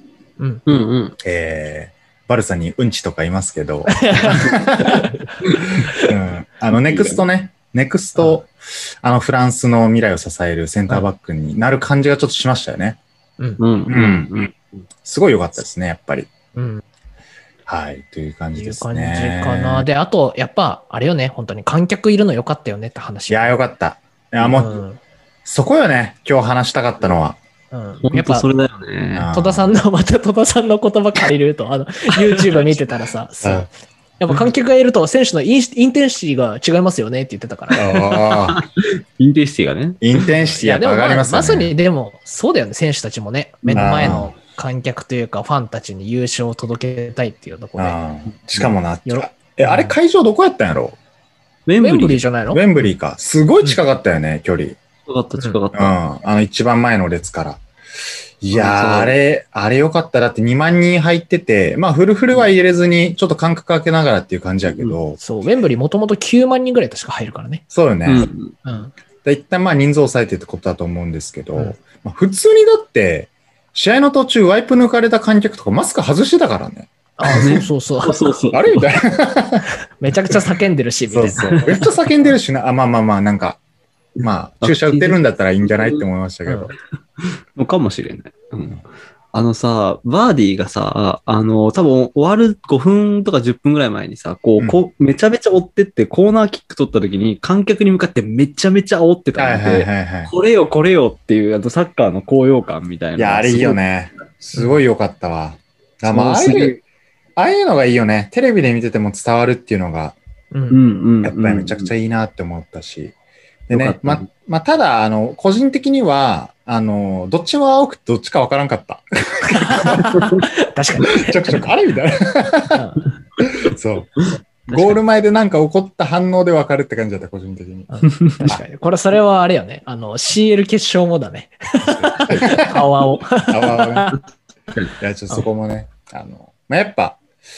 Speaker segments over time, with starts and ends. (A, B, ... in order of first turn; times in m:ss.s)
0:00.7-0:01.2 A
0:01.2-0:05.1 B
0:03.9-0:05.2 C
0:05.9-0:13.0 B
0:06.9-0:07.2 A
0:13.6-0:14.8 A
0:13.9-0:14.3 B
0:15.0-0:16.3 B
0:16.6-0:16.8 C
0:17.7-0:19.9 B
0:18.6-0:23.6 C
0:23.3-0:24.8 B
0:24.5-0:25.0 C
0:25.4-0:27.4 B
0:27.7-0:28.5 C
0:28.0-0:29.3 A
0:29.1-0:29.8 B
0:29.3-0:33.7 C
0:33.4-0:33.7 B
0:34.2-0:38.0 C
0:37.8-0:38.6 B
0:37.9-0:40.2 A
0:40.0-0:41.7 B
0:40.5-0:48.0 C
0:43.6-0:44.1 A
0:43.8-0:44.3 B
0:47.8-0:51.0 B
0:49.1-0:50.0 C
0:51.7-0:52.2 A
0:51.8-0:52.6 C
0:52.5-0:54.8 B
0:55.1-0:56.0 A
0:55.8-0:57.6 B
0:58.4-1:05.2 B
0:58.5-0:59.2 A
1:05.2-1:07.6 C
1:07.7-1:08.3 B
1:08.1-1:08.5 A
1:08.6-1:08.9 C
1:09.2-1:17.6 B
1:17.2-1:18.2 C
1:17.2-1:19.0 A
1:18.5-1:19.7 B
1:20.0-1:21.9 C
1:21.1-1:23.6 B
1:21.4-1:21.7 A
1:24.2-1:26.7 B
1:24.2-1:26.0 A
1:27.2-1:43.8 A
1:39.4-1:40.3 B
1:43.2-1:46.8 B
1:46.1-1:46.8 A
1:47.4-1:50.2 B
1:50.5-1:50.8 C
1:50.7-1:51.9 A
1:51.2-1:53.2 B
1:53.7-2:00.2 B
1:53.7-1:54.3 A
1:59.5-2:01.6 C
2:01.1-2:02.8 B
2:02.7-2:03.1 C
2:03.4-2:07.9 B
2:07.9-2:14.2 C
2:11.8-2:12.8 B
2:13.5-2:14.2 B
2:15.0-2:17.2 B